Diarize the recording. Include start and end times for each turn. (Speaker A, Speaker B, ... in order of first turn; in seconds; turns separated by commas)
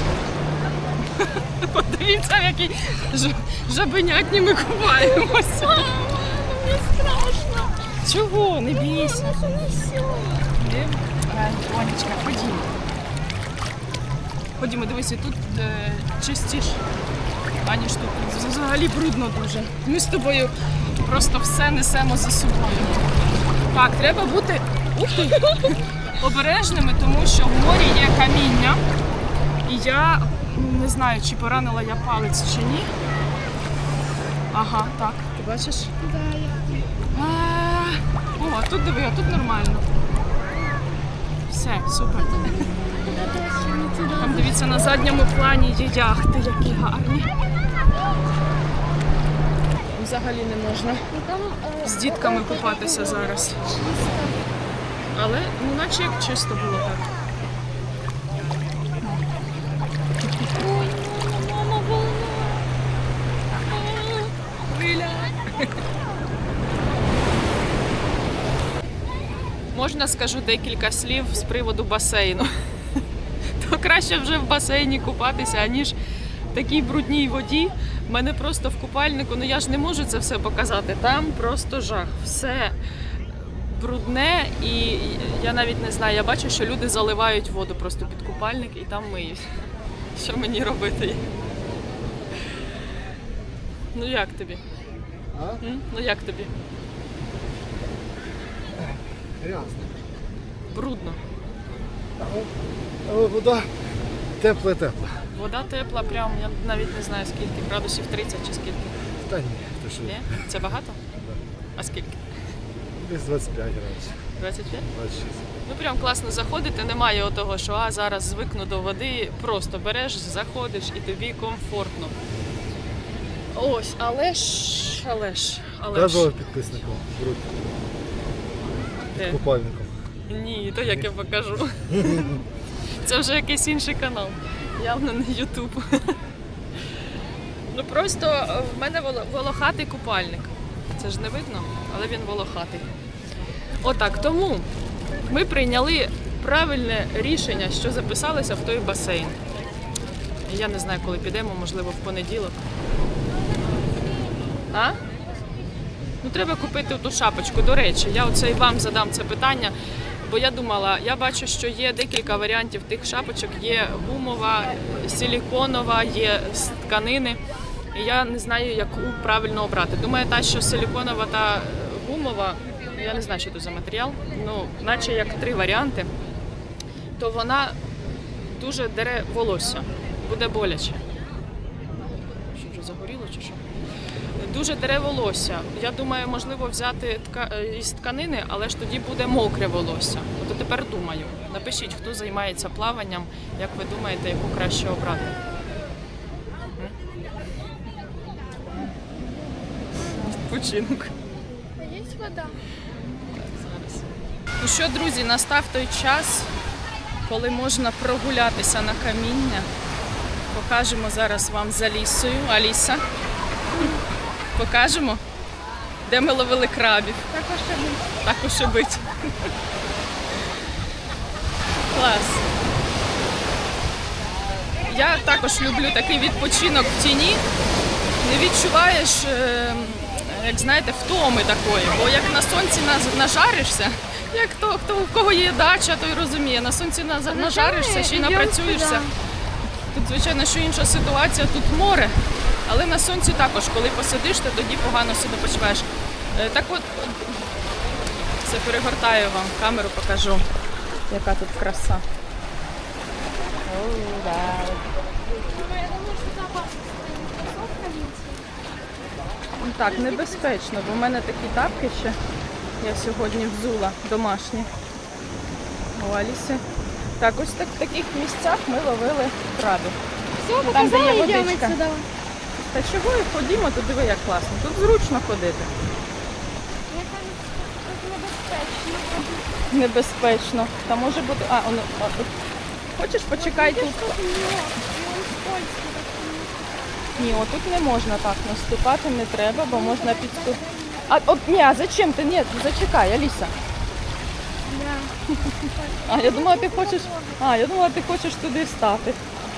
Speaker A: 1.1-5.9, Speaker B: 5.0-7.8, Speaker A: 8.0-9.4, Speaker B: 8.9-10.5, Speaker A: 10.5-12.7, Speaker A: 14.6-16.8, Speaker A: 17.6-23.1, Speaker A: 23.7-28.8, Speaker A: 29.6-32.9, Speaker A: 34.5-35.9, Speaker B: 36.0-36.9, Speaker A: 37.1-39.9, Speaker A: 41.5-42.6, Speaker B: 42.4-44.8, Speaker A: 44.1-47.3, Speaker A: 49.9-51.1, Speaker B: 51.1-54.4, Speaker A: 51.8-53.6, Speaker A: 55.1-57.1, Speaker B: 60.5-62.7, Speaker B: 63.6-64.3, Speaker A: 64.7-65.7, Speaker A: 69.7-72.5, Speaker A: 73.6-76.0, Speaker A: 76.5-82.8, Speaker A: 83.4-89.4, Speaker A: 90.1-91.3, Speaker A: 93.9-94.6, Speaker C: 95.3-95.6, Speaker A: 95.6-96.5, Speaker C: 98.8-100.1, Speaker A: 100.7-101.2, Speaker C: 102.2-102.5, Speaker C: 103.0-105.2, Speaker A: 105.3-109.0, Speaker C: 109.2-110.6, Speaker A: 110.0-111.0, Speaker A: 111.8-112.2, Speaker C: 113.0-114.2, Speaker A: 114.4-114.9, Speaker C: 114.9-115.5, Speaker A: 115.6-122.2, Speaker A: 123.5-126.8, Speaker C: 125.9-127.7, Speaker A: 129.1-129.4, Speaker C: 129.2-129.9, Speaker A: 130.3-132.4, Speaker C: 131.9-132.3, Speaker A: 133.0-136.2, Speaker A: 137.7-142.9, Speaker A: 143.8-144.7, Speaker A: 145.2-149.4, Speaker A: 150.5-152.6, Speaker B: 153.6-154.7, Speaker A: 154.7-155.0, Speaker A: 156.2-167.4, Speaker A: 167.9-176.1, Speaker A: 177.2-177.8, Speaker A: 178.4-181.0, Speaker A: 182.5-183.6, Speaker A: 184.4-195.4, Speaker A: 200.1-201.1, Speaker B: 201.7-202.6, Speaker A: 203.3-204.1, Speaker A: 204.6-206.5, Speaker A: 207.2-209.7, Speaker A: 210.5-213.0, Speaker B: 213.7-214.0, Speaker A: 214.5-215.2, Speaker A: 216.0-217.2, Speaker B: 217.3-218.1, Speaker A: 218.2-219.1, Speaker A: 221.9-222.4, Speaker A: 224.9-227.4, Speaker A: 228.2-239.1, Speaker B: 237.3-239.1, Speaker A: 239.8-247.5, Speaker A: 248.4-250.5, Speaker A: 251.1-252.0, Speaker A: 253.7-254.8, Speaker B: 255.4-258.5, Speaker A: 259.6-262.2, Speaker B: 259.8-260.5, Speaker A: 262.8-264.7, Speaker A: 265.9-266.6, Speaker A: 267.2-270.0, Speaker B: 270.4-272.1, Speaker A: 270.6-271.8, Speaker A: 272.7-275.7, Speaker B: 276.9-279.5, Speaker A: 279.7-282.3, Speaker A: 282.9-284.0, Speaker B: 283.3-287.4, Speaker A: 287.1-293.5, Speaker B: 289.7-291.1, Speaker B: 294.6-297.4, Speaker A: 295.4-299.2